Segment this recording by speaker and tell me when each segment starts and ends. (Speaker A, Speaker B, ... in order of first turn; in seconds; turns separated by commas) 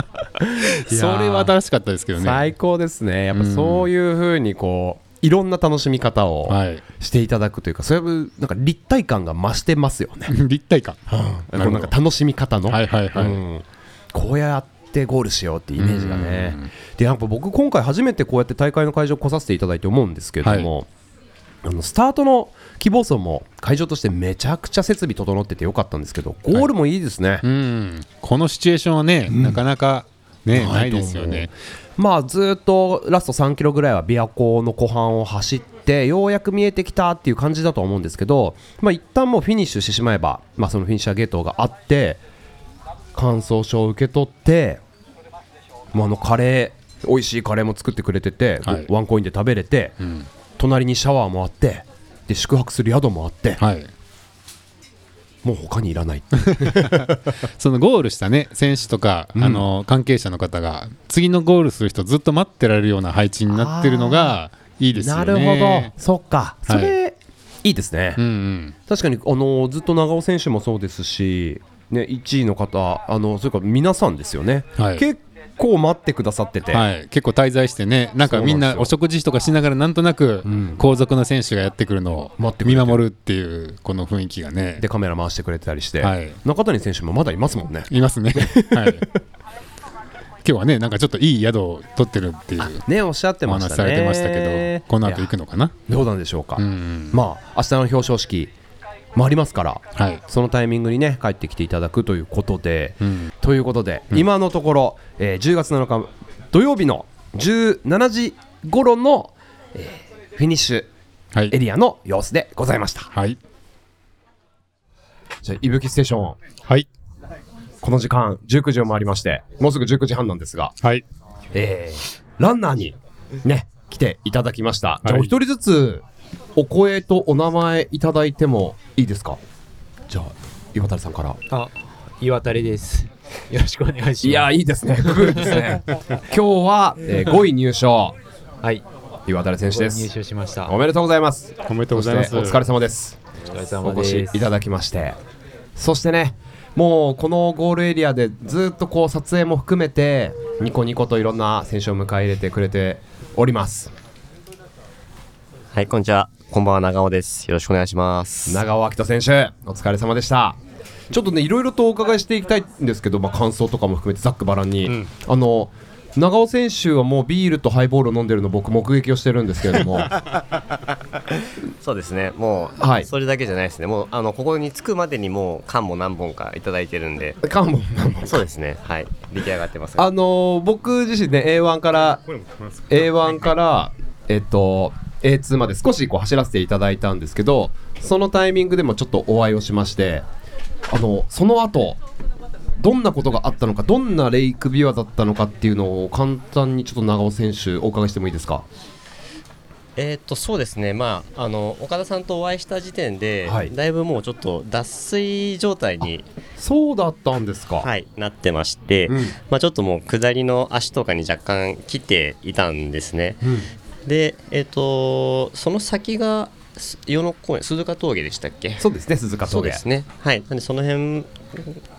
Speaker A: 0.4-1.5, Speaker B: 0.9-2.5, Speaker A: 2.1-10.3, Speaker B: 3.3-3.9, Speaker B: 6.5-6.8, Speaker B: 10.3-11.0, Speaker A: 11.1-20.9, Speaker B: 11.5-11.9, Speaker B: 12.7-13.4, Speaker B: 15.8-16.7, Speaker B: 20.4-20.7, Speaker A: 21.6-27.4, Speaker B: 27.4-31.5, Speaker A: 29.3-29.6, Speaker A: 30.5-42.2, Speaker A: 43.1-44.8, Speaker A: 45.9-50.0, Speaker B: 50.0-50.3, Speaker A: 50.6-53.6, Speaker B: 53.6-53.9, Speaker A: 55.4-57.1, Speaker B: 57.6-65.9, Speaker A: 59.4-59.6, Speaker A: 63.5-64.4, Speaker A: 64.9-68.2, Speaker B: 66.7-66.9, Speaker B: 68.2-68.8, Speaker A: 68.9-76.8, Speaker B: 74.8-75.0, Speaker B: 76.7-84.8, Speaker A: 78.2-78.9, Speaker A: 80.4-80.8, Speaker A: 82.4-83.0, Speaker A: 84.8-89.0, Speaker B: 86.0-86.4, Speaker B: 87.9-89.0, Speaker B: 90.4-92.8, Speaker A: 92.6-95.3, Speaker B: 93.5-95.7, Speaker A: 95.9-98.5, Speaker B: 96.6-97.2, Speaker A: 99.1-110.9, Speaker B: 100.0-100.2, Speaker B: 103.0-103.3, Speaker A: 111.5-113.1, Speaker B: 113.1-113.4, Speaker A: 115.4-116.4, Speaker A: 117.8-120.8, Speaker A: 121.5-126.0, Speaker B: 125.0-125.3, Speaker A: 126.5-129.4, Speaker A: 130.1-131.4, Speaker C: 131.5-135.7, Speaker A: 134.2-138.2, Speaker A: 139.3-140.1, Speaker C: 139.7-140.8, Speaker A: 140.7-143.2, Speaker B: 141.7-142.6, Speaker C: 143.4-144.5, Speaker A: 143.8-145.2, Speaker A: 145.8-153.9, Speaker D: 155.7-158.6, Speaker A: 158.5-160.6, Speaker A: 161.1-170.1, Speaker D: 171.8-177.4, Speaker A: 172.8-173.1, Speaker A: 177.4-178.4, Speaker D: 178.2-180.1, Speaker A: 180.0-182.2, Speaker A: 182.9-190.2, Speaker A: 190.9-192.0, Speaker A: 192.8-198.7, Speaker D: 199.9-206.2, Speaker A: 203.4-203.7, Speaker A: 206.6-207.9, Speaker D: 207.8-213.5, Speaker A: 209.1-209.3, Speaker D: 214.1-218.8, Speaker A: 218.8-219.8, Speaker D: 219.5-221.8